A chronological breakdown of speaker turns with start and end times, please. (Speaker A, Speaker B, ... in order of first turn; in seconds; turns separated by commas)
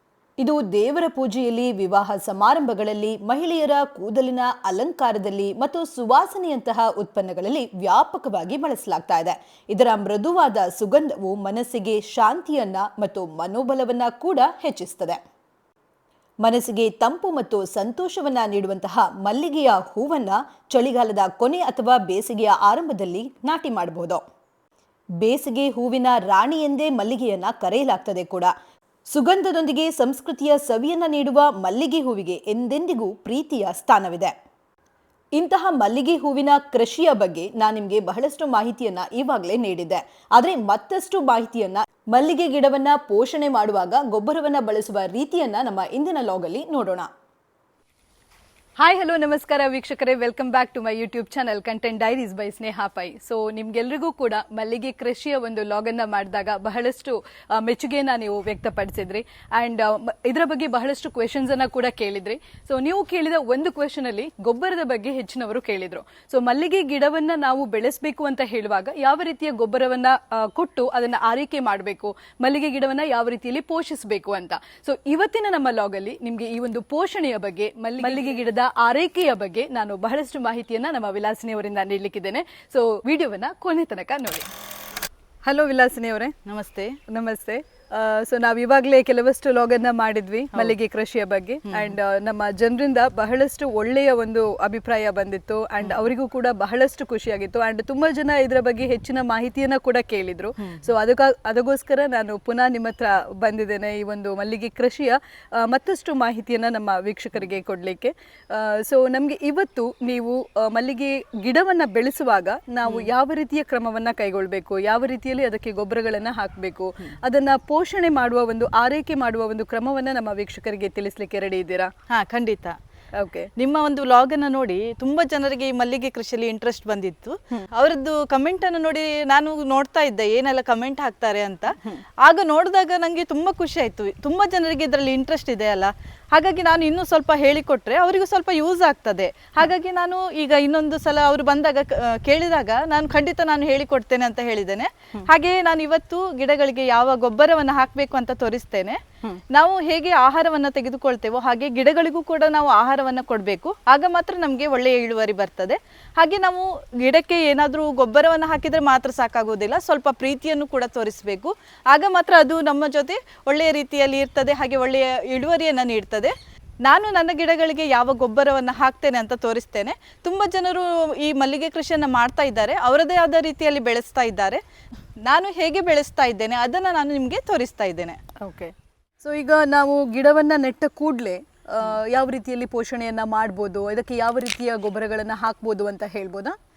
Speaker A: 0.4-15.2, Speaker A: 16.4-24.2, Speaker A: 25.2-28.5, Speaker A: 29.1-34.3, Speaker A: 35.3-47.1, Speaker B: 48.8-84.5, Speaker B: 85.4-86.4, Speaker C: 86.5-87.0, Speaker B: 87.1-121.9, Speaker C: 91.7-92.0, Speaker C: 122.1-122.8, Speaker B: 123.2-123.5, Speaker C: 123.6-149.0, Speaker C: 149.5-166.3, Speaker C: 166.8-174.6, Speaker C: 175.2-178.2, Speaker B: 178.4-186.6